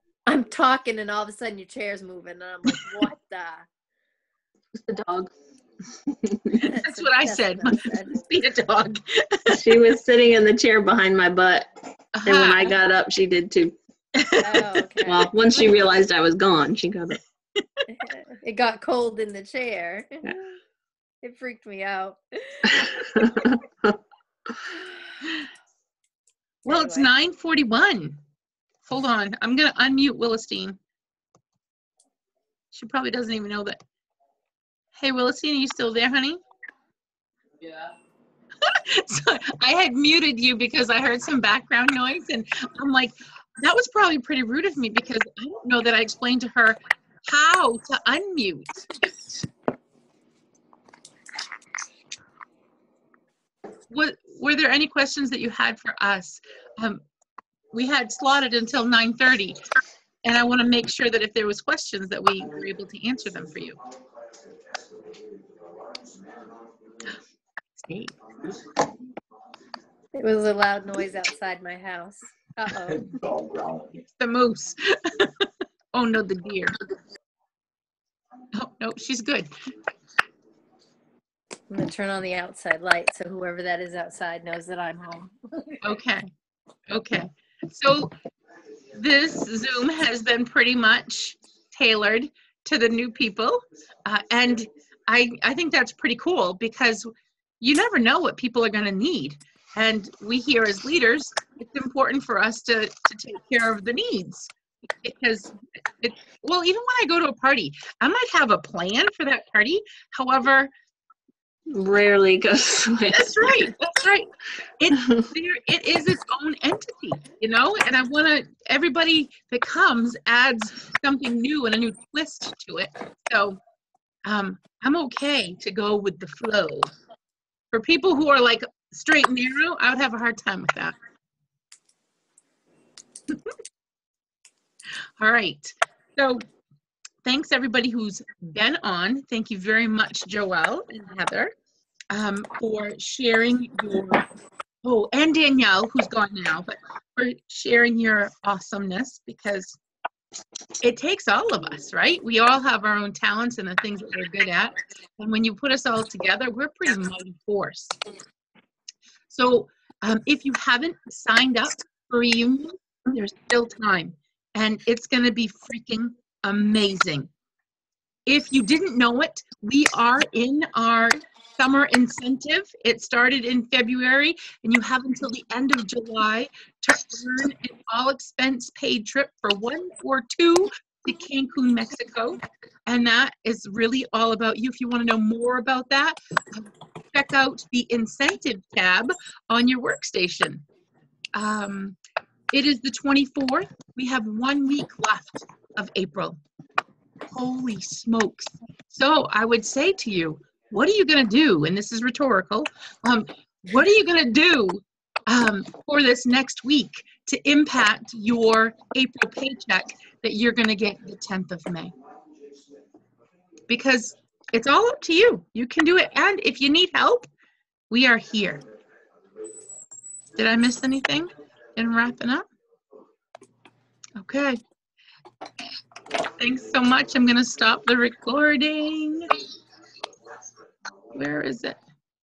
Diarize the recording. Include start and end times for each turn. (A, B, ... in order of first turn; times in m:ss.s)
0:00.3-0:03.7 A
0:04.8-0:05.3 B
0:06.2-0:06.6 B
0:06.6-0:08.2 A
0:06.8-0:09.6 C
0:09.5-0:11.7 B
0:12.2-0:12.8 C
0:12.2-0:13.8 B
0:14.2-0:14.6 C
0:14.4-0:15.7 A
0:15.0-0:17.2 B
0:17.6-0:17.8 C
0:17.9-0:20.6 A
0:21.2-0:23.5 A
0:22.8-0:24.0 B
0:26.6-0:27.1 A
0:26.7-0:28.2 C
0:28.9-0:30.8 C
0:32.7-0:33.8 C
0:35.0-0:36.4 C
0:38.6-0:48.9 C
0:53.9-0:57.0 C
0:57.7-0:59.6 C
1:00.2-1:03.8 C
1:07.8-1:08.2 C
1:10.1-1:13.2 A
1:13.7-1:16.8 C
1:18.5-1:19.5 C
1:21.7-1:25.8 A
1:25.8-1:26.3 C
1:26.9-1:28.1 C
1:29.0-1:44.5 C
1:45.0-1:50.7 C
1:51.7-1:53.7 B
1:53.1-2:03.6 C
1:55.0-1:55.2 B
2:04.3-2:06.9 C
2:07.7-2:11.0 C
2:15.2-2:16.4 C
2:17.2-2:21.5 C
2:22.1-2:24.2 C
2:24.8-2:29.8 C
2:30.8-2:38.0 C
2:39.3-2:47.3 C
2:48.3-3:10.6 C
3:11.4-3:12.0 C
3:12.5-3:16.4 C
3:17.3-3:31.9 C
3:33.7-3:37.3 C
3:37.9-3:38.6 C
3:40.4-3:42.5 C
3:44.2-3:44.6 C
3:46.4-3:49.3 C
3:51.1-3:51.8 C